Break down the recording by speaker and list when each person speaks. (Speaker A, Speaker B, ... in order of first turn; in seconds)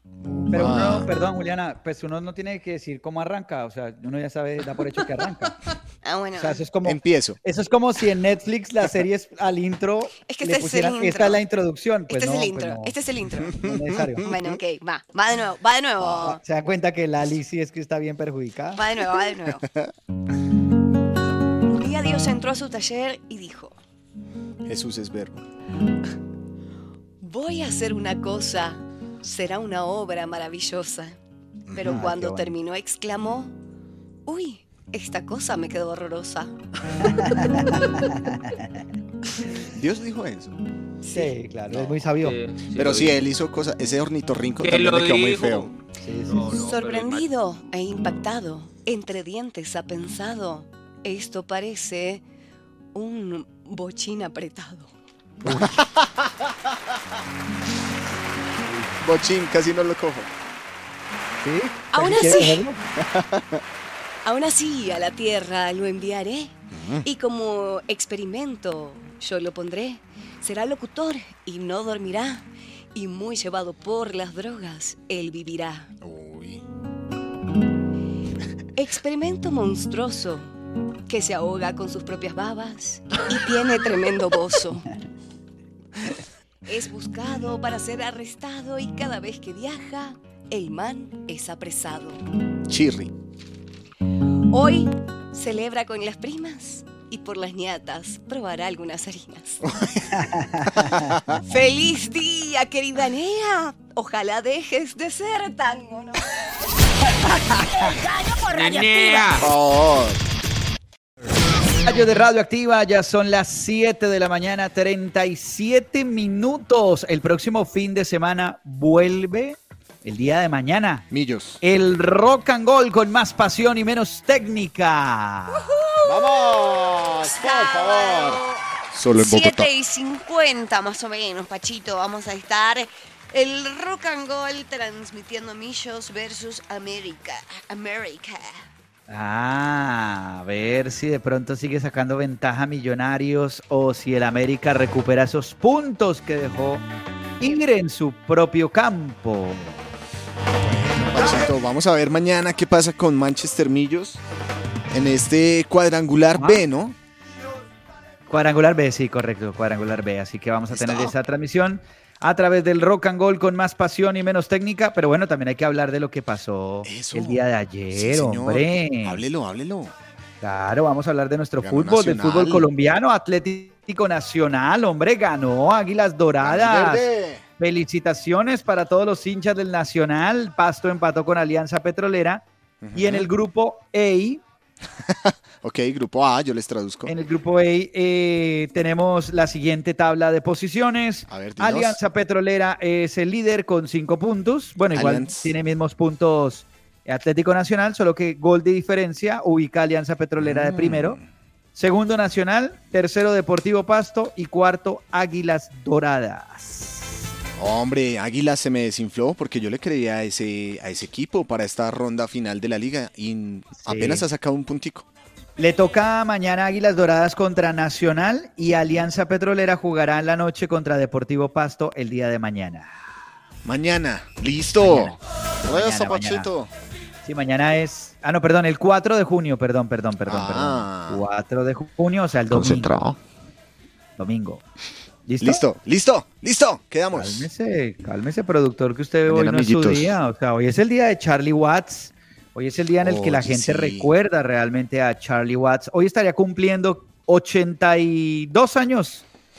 Speaker A: 0.2-1.1, 6.8-7.4, 13.5-14.6, 16.0-16.2, 19.6-19.9, 24.6-25.4, 31.7-32.2, 39.7-40.6, 41.7-42.1, 42.7-45.7, 55.5-56.3, 59.0-60.3, 63.0-63.6, 66.7-67.0, 76.0-76.6, 92.7-93.1, 99.7-100.1, 100.8-101.2, 109.3-110.2, 121.1-121.6, 126.0-129.7, 150.6-154.2, 154.9-156.9, 160.7-161.1, 166.8-169.9, 171.6-172.7, 176.4-177.4, 182.8-183.3, 184.9-187.1, 191.3-192.0, 194.9-195.5, 200.4-201.3, 207.6-215.1, 223.6-226.7, 230.2-231.2, 232.5-233.2, 235.4-237.5, 239.2-240.2, 243.0-244.1
Speaker B: 0.5-5.6, 6.4-12.9, 13.6-14.3, 16.2-18.8, 31.8-32.5, 37.0-38.6, 41.1-42.4, 46.0-46.5, 55.4-55.8, 61.4-62.8, 100.1-101.2, 111.8-121.1, 121.6-125.7, 139.1-146.8, 147.4-149.8, 151.1-151.6, 156.4-156.6, 158.3-169.2, 170.4-184.4, 187.1-201.2, 201.7-207.2, 213.8-214.3, 215.6-223.0, 224.8-226.5, 227.2-232.9, 234.2-234.6, 235.3-235.6, 237.1-249.2
Speaker C: 6.0-6.6, 10.3-11.4, 12.1-13.6, 14.2-16.4, 18.7-19.6, 21.6-23.8, 27.2-31.2, 31.7-33.5, 34.2-36.5, 41.0-41.3, 46.5-52.2, 52.9-54.9, 61.9-62.6, 64.2-75.9, 78.8-80.5, 81.1-84.8, 86.7-92.2, 94.5-99.6, 101.4-106.4, 125.6-138.6
Speaker D: 42.2-43.2, 44.6-45.8, 46.3-47.3, 108.5-109.5
Speaker E: 107.4-109.4